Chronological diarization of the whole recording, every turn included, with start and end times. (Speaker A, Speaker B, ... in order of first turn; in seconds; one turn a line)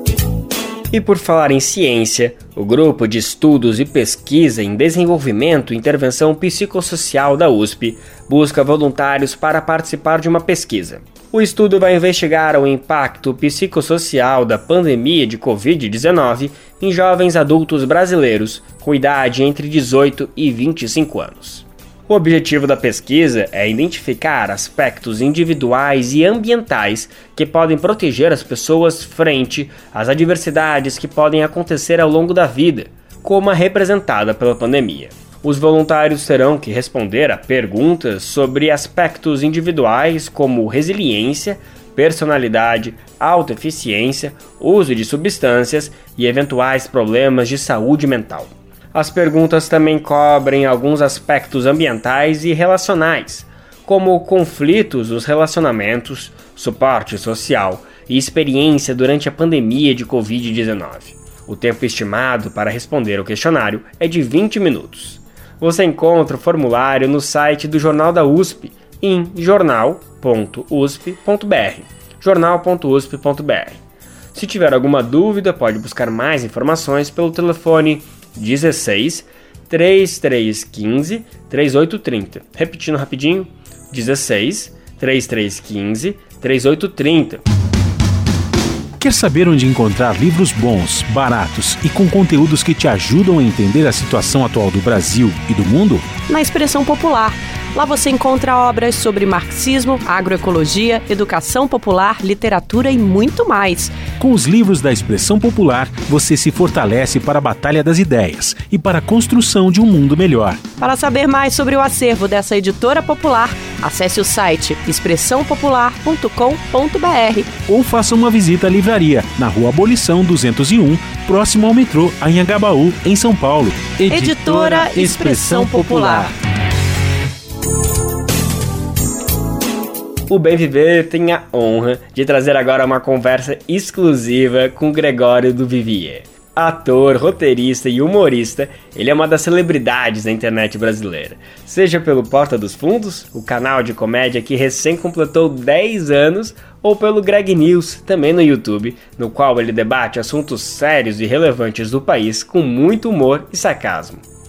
Speaker A: 0.9-73.8
Speaker A: 74.3-87.4
Speaker B: 89.0-96.2
Speaker C: 96.3-104.1
Speaker B: 104.2-110.7
Speaker C: 110.8-117.6
Speaker B: 117.7-126.3
Speaker C: 124.1-126.3
Speaker A: 130.3-154.2